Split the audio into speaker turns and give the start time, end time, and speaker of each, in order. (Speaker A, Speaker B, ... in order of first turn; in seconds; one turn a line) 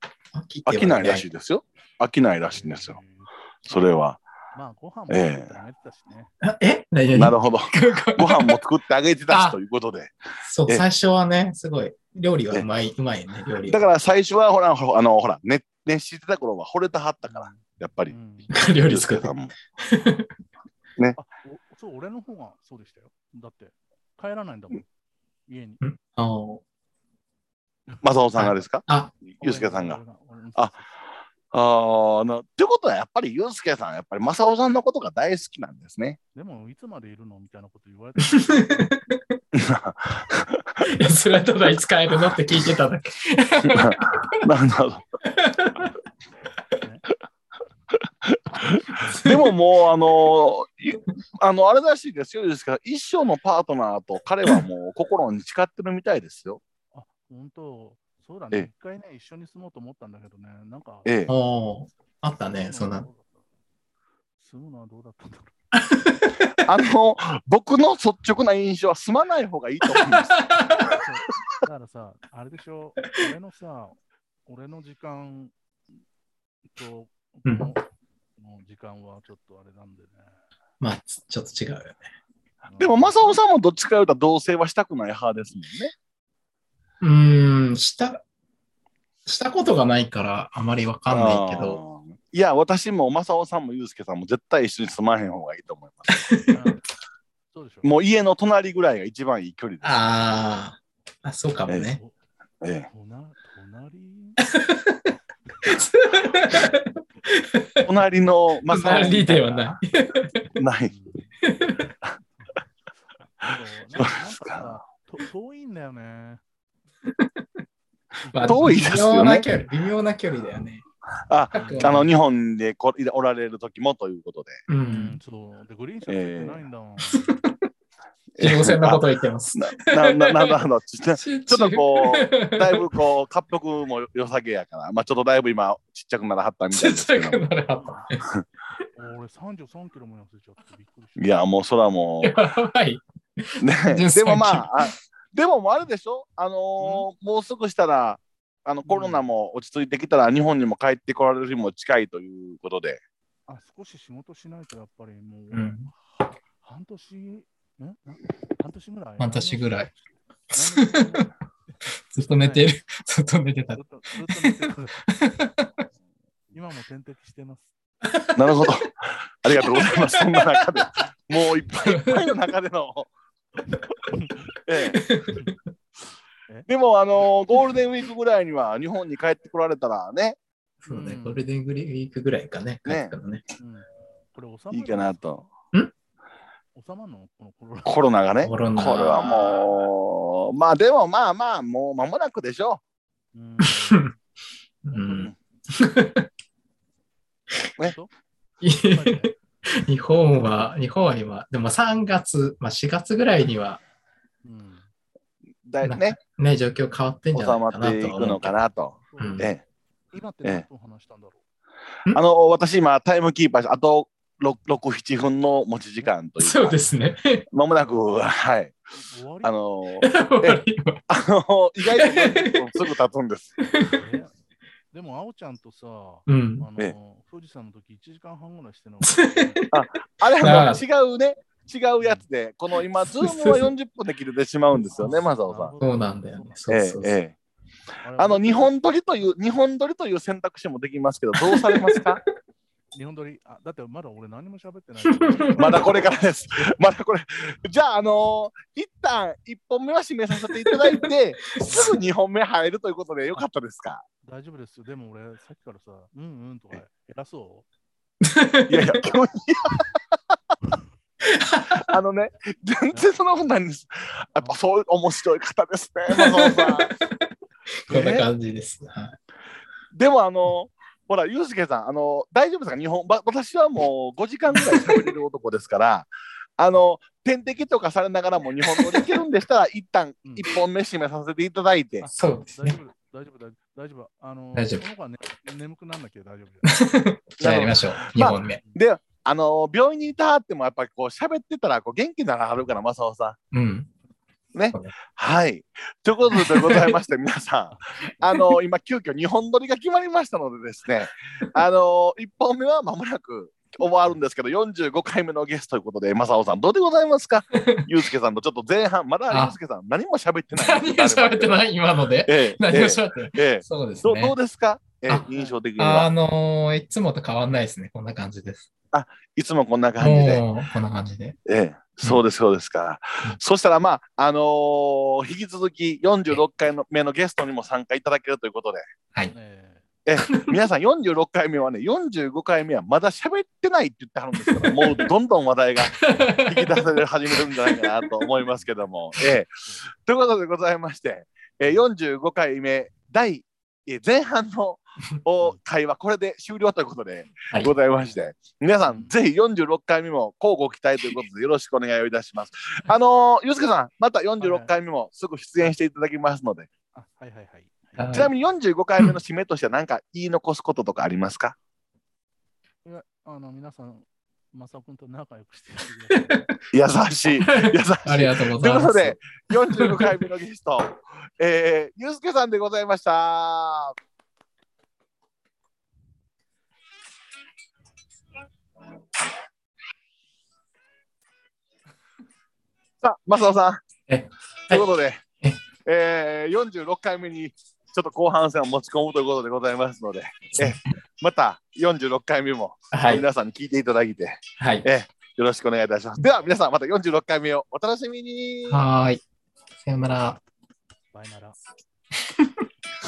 Speaker A: 0.3-1.2
Speaker B: 0.7-3.0
Speaker C: 2.5-3.3
Speaker B: 3.6-4.2
Speaker C: 4.5-6.3
Speaker B: 5.1-5.6
Speaker A: 6.4-8.6
Speaker B: 7.1-10.1
Speaker A: 9.3-9.6
Speaker A: 10.4-13.8
Speaker B: 13.7-18.1
Speaker C: 17.3-18.5
Speaker A: 18.5-20.3
Speaker B: 18.8-19.5
Speaker C: 21.1-24.9
Speaker C: 25.5-25.8
Speaker A: 25.8-26.6
Speaker B: 28.0-30.0
Speaker A: 28.4-29.1
Speaker C: 29.4-30.9
Speaker B: 31.5-36.2
Speaker C: 36.3-39.0
Speaker A: 38.2-39.4
Speaker B: 39.5-40.8
Speaker A: 40.9-44.4
Speaker B: 43.7-45.0
Speaker A: 45.2-45.9
Speaker C: 46.8-47.0
Speaker B: 48.2-56.6
Speaker A: 49.0-49.5
Speaker C: 56.9-61.1
Speaker B: 61.0-61.3
Speaker A: 61.3-63.1
Speaker C: 62.4-63.4
Speaker C: 64.4-65.5
Speaker A: 65.7-66.6
Speaker B: 66.6-70.4
Speaker A: 69.8-70.9
Speaker C: 70.7-75.5
Speaker C: 76.7-80.3
Speaker A: 77.5-77.7
Speaker A: 80.8-82.0
Speaker C: 82.6-83.4
Speaker B: 82.8-85.9
Speaker A: 87.0-88.2
Speaker A: 89.2-91.8
Speaker B: 91.1-96.2
Speaker A: 96.1-96.6
Speaker C: 96.5-96.8
Speaker C: 97.5-97.9
Speaker B: 97.8-100.3
Speaker A: 99.8-102.0
Speaker C: 101.8-102.2
Speaker B: 102.6-102.9
Speaker C: 102.8-104.4
Speaker A: 104.5-105.0
Speaker A: 105.6-107.9
Speaker B: 107.8-109.8
Speaker A: 108.7-110.5
Speaker B: 110.6-110.9
Speaker C: 110.8-111.4
Speaker A: 111.4-111.9
Speaker C: 113.4-116.4
Speaker B: 114.0-114.7
Speaker A: 117.0-117.6
Speaker C: 118.2-118.9
Speaker A: 118.3-120.8
Speaker B: 118.4-119.5
Speaker B: 121.3-124.6
Speaker C: 121.5-122.1
Speaker A: 121.6-122.1
Speaker A: 124.7-125.2
Speaker C: 124.8-127.3
Speaker B: 126.1-126.6
Speaker A: 127.1-127.6
Speaker B: 128.4-129.0
Speaker A: 128.4-130.6
Speaker B: 129.5-137.4
Speaker A: 131.1-132.9
Speaker A: 136.7-138.2
Speaker C: 137.7-138.1
Speaker C: 138.9-141.4
Speaker B: 141.2-142.3
Speaker A: 142.2-144.9
Speaker B: 143.6-153.0
Speaker C: 146.8-147.1
Speaker C: 148.8-149.2
Speaker C: 153.5-159.9
Speaker A: 155.5-155.9
Speaker A: 159.2-159.9
Speaker A: 160.5-161.1
Speaker C: 160.5-162.7
Speaker A: 162.1-165.8
Speaker C: 163.7-165.0
Speaker C: 166.5-167.7
Speaker A: 168.0-168.7
Speaker B: 168.3-173.1
Speaker A: 169.4-170.8
Speaker A: 171.8-172.4
Speaker C: 174.1-174.3
Speaker B: 174.6-175.0
Speaker A: 174.9-175.6
Speaker C: 175.3-175.6
Speaker B: 176.7-180.4
Speaker A: 180.8-183.4
Speaker C: 180.8-181.5
Speaker B: 182.8-183.1
Speaker C: 183.6-185.2
Speaker B: 184.7-185.4
Speaker C: 186.7-188.0
Speaker B: 187.8-192.8
Speaker A: 188.4-189.7
Speaker C: 193.3-194.1
Speaker A: 193.6-194.1
Speaker A: 194.8-196.3
Speaker C: 194.9-195.3
Speaker C: 197.8-198.1
Speaker A: 198.6-203.8
Speaker C: 198.7-199.3
Speaker C: 204.4-204.9
Speaker B: 205.6-206.2
Speaker A: 205.8-208.6
Speaker B: 207.3-209.6
Speaker C: 209.0-209.5
Speaker A: 209.2-209.5
Speaker C: 210.1-211.4
Speaker B: 212.1-216.8
Speaker A: 216.4-217.4
Speaker B: 217.5-218.8
Speaker C: 217.8-218.2
Speaker C: 218.9-219.5
Speaker B: 219.4-223.5
Speaker A: 220.0-221.0
Speaker A: 221.8-222.9
Speaker A: 223.6-224.0
Speaker C: 223.8-224.3
Speaker C: 224.9-229.7
Speaker A: 226.3-226.7
Speaker A: 229.0-229.8
Speaker B: 229.7-235.7
Speaker A: 230.4-230.8
Speaker C: 232.0-232.2
Speaker A: 233.0-233.7
Speaker A: 234.7-235.2
Speaker C: 234.9-236.7
Speaker A: 235.8-237.2
Speaker B: 236.7-237.3
Speaker C: 238.0-238.7
Speaker B: 238.2-242.2
Speaker A: 241.4-242.2
Speaker C: 242.9-246.2
Speaker A: 245.0-245.9
Speaker B: 245.6-254.0
Speaker A: 250.5-251.1
Speaker A: 251.6-252.0
Speaker C: 251.6-252.0
Speaker C: 254.2-257.7
Speaker A: 258.2-259.0
Speaker B: 258.7-259.8
Speaker A: 261.2-262.0
Speaker B: 261.7-266.9
Speaker A: 266.1-267.2
Speaker A: 267.9-269.1
Speaker B: 267.9-268.3
Speaker B: 269.9-282.1
Speaker A: 274.6-275.0
Speaker A: 278.8-279.1
Speaker C: 282.0-286.9
Speaker A: 282.1-282.8
Speaker A: 284.5-284.8
Speaker A: 286.6-288.6
Speaker B: 287.4-293.4
Speaker C: 287.9-288.8
Speaker A: 293.5-293.9
Speaker B: 294.5-311.6
Speaker A: 296.3-296.9
Speaker C: 297.7-297.9
Speaker A: 307.5-307.9
Speaker A: 309.3-309.6
Speaker A: 310.5-314.3
Speaker B: 312.2-316.1
Speaker C: 315.3-315.6
Speaker A: 315.8-318.7
Speaker B: 318.9-320.4
Speaker A: 320.0-321.4
Speaker B: 321.4-328.8
Speaker C: 329.3-329.8
Speaker B: 330.1-356.7
Speaker A: 330.2-330.6
Speaker A: 334.4-335.1
Speaker A: 335.8-336.8
Speaker A: 337.3-338.0
Speaker C: 338.4-338.9
Speaker C: 348.9-349.1
Speaker C: 354.4-354.7
Speaker C: 356.9-358.2
Speaker A: 358.0-358.3
Speaker B: 358.1-361.5
Speaker C: 362.8-366.4
Speaker A: 366.1-366.6
Speaker B: 366.7-373.9
Speaker A: 367.3-370.3
Speaker B: 383.0-383.8
Speaker A: 384.1-384.8
Speaker B: 384.7-385.2
Speaker B: 385.8-398.8
Speaker A: 390.5-390.8
Speaker A: 392.9-393.2
Speaker A: 394.6-394.9
Speaker A: 398.7-399.2
Speaker A: 399.8-400.4
Speaker C: 401.1-401.6
Speaker A: 402.3-402.6